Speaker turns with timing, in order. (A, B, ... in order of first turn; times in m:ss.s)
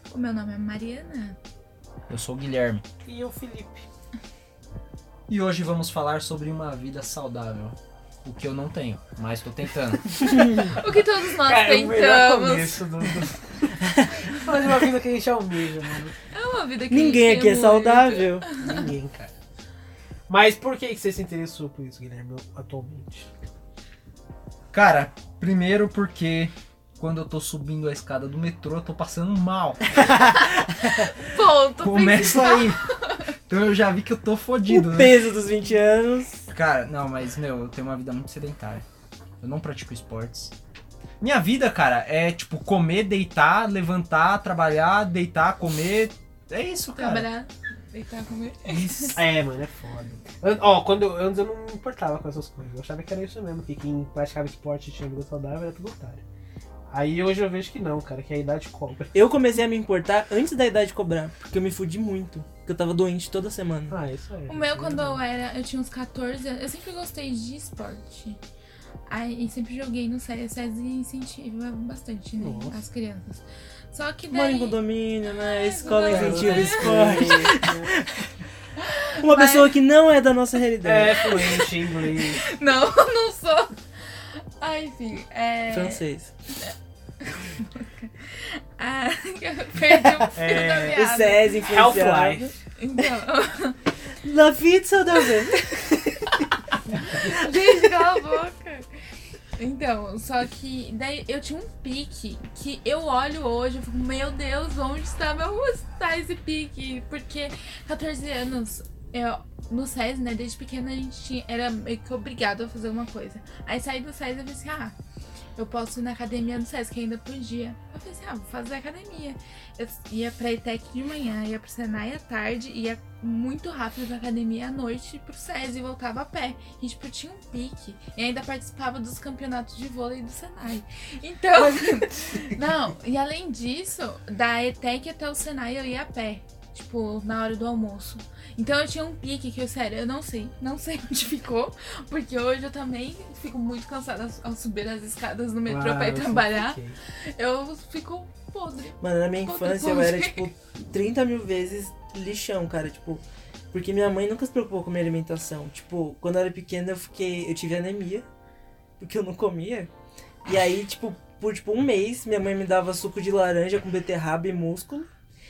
0:00.1-0:01.4 A
0:02.1-0:02.8 B
0:03.0-0:03.8 C
0:05.3-0:10.2 B
0:10.2-0:10.7 D
0:10.5-0:12.8 A
0:11.4-0:16.1 C
0:13.8-0:14.9 D
0:16.3-0:18.8 A
0:16.9-0:18.4 D
0:18.5-0:19.3 C
0:20.3-0:23.3 C
0:24.7-0:30.1 B
0:30.0-0:31.1 D
0:31.2-0:33.2 A
0:31.8-0:32.9 B
0:33.5-0:35.2 B
0:34.7-0:36.4 D
0:36.5-0:38.8 B
0:39.4-0:40.5 B
0:41.2-0:47.3 B
0:46.9-0:49.2 A
0:49.1-0:56.2 C
0:56.9-0:59.1 C
0:59.1-1:04.0 D
1:03.9-1:05.2 C
1:04.5-1:08.4 A
1:09.1-1:17.5 A
1:12.4-1:12.8 C
1:14.3-1:18.3 D
1:15.8-1:17.9 C
1:18.8-1:19.7 A
1:19.2-1:21.3 D
1:20.8-1:22.4 C
1:21.2-1:31.5 A
1:25.7-1:26.3 D
1:29.9-1:32.5 D
1:30.3-1:31.0 C
1:31.6-1:32.5 C
1:32.8-1:33.8 A
1:34.2-1:36.4 D
1:37.1-1:38.9 A
1:37.1-1:37.9 D
1:39.6-1:54.9 A
1:55.6-2:30.5 A
2:25.7-2:27.0 C
2:29.0-2:38.2 D
2:39.0-2:39.9 D
2:40.4-2:45.1 D